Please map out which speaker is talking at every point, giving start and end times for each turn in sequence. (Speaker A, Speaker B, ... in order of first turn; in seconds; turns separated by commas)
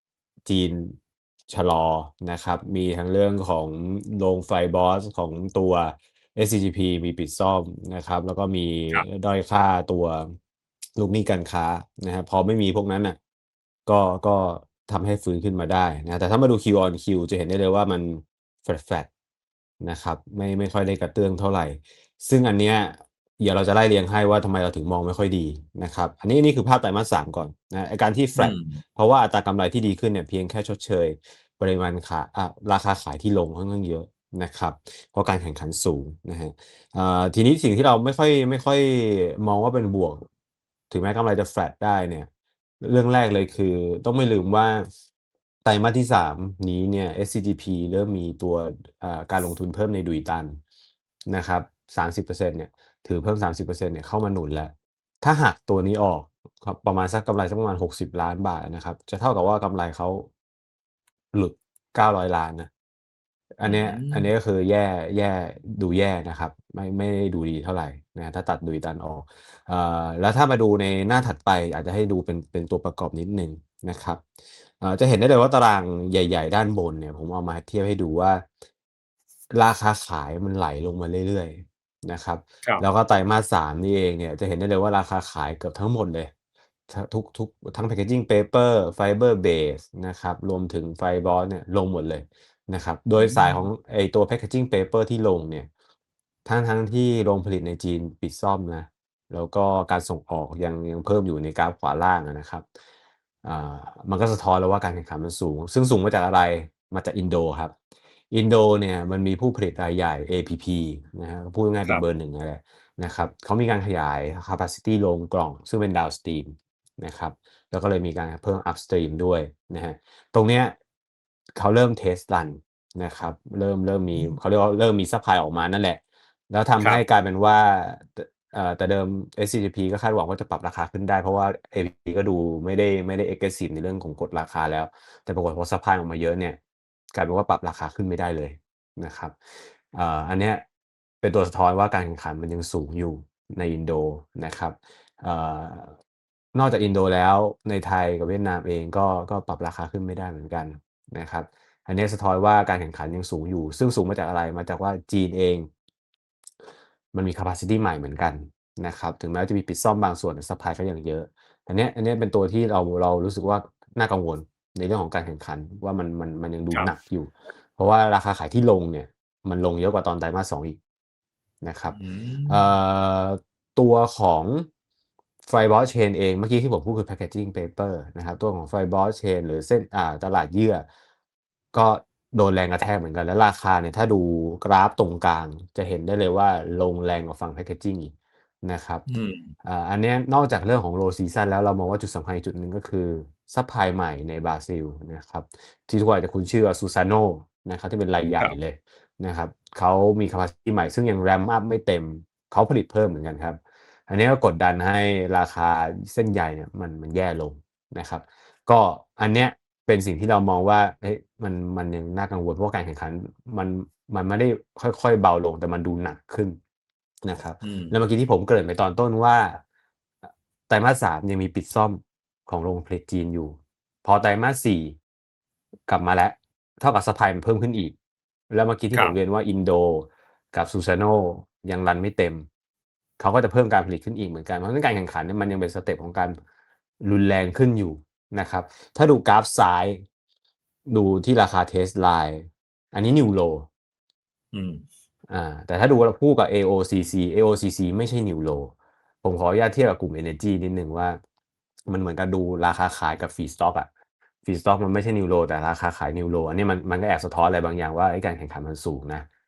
Speaker A: 0.5-1.0, Speaker A: 1.5-10.3, Speaker A: 10.9-13.2, Speaker A: 13.8-19.1, Speaker A: 19.8-40.3, Speaker B: 28.4-28.8, Speaker A: 40.9-42.3, Speaker A: 42.8-44.9, Speaker A: 45.6-50.6, Speaker A: 51.3-60.3, Speaker A: 61.3-62.7, Speaker A: 63.6-74.2, Speaker B: 63.6-64.3, Speaker A: 74.8-78.4, Speaker A: 79.5-86.3, Speaker A: 86.9-95.7, Speaker B: 93.2-93.7, Speaker A: 96.5-102.6, Speaker A: 103.4-107.7, Speaker A: 108.3-120.8, Speaker A: 121.6-136.6, Speaker A: 137.1-139.3, Speaker A: 139.9-140.6, Speaker A: 141.2-145.9, Speaker A: 146.5-155.7, Speaker A: 157.1-170.8, Speaker A: 171.6-172.0, Speaker B: 171.9-172.7, Speaker A: 172.5-174.7, Speaker A: 175.4-180.8, Speaker A: 181.7-189.0, Speaker B: 189.1-189.5, Speaker A: 189.6-216.6, Speaker A: 217.2-219.6, Speaker B: 217.6-217.9, Speaker A: 220.7-224.9, Speaker A: 225.9-227.9, Speaker A: 228.5-232.4, Speaker A: 233.2-236.4, Speaker A: 237.0-240.0, Speaker A: 240.9-243.7, Speaker B: 244.5-244.8, Speaker A: 245.3-248.7, Speaker A: 249.2-251.2, Speaker A: 251.9-253.9, Speaker A: 254.4-259.2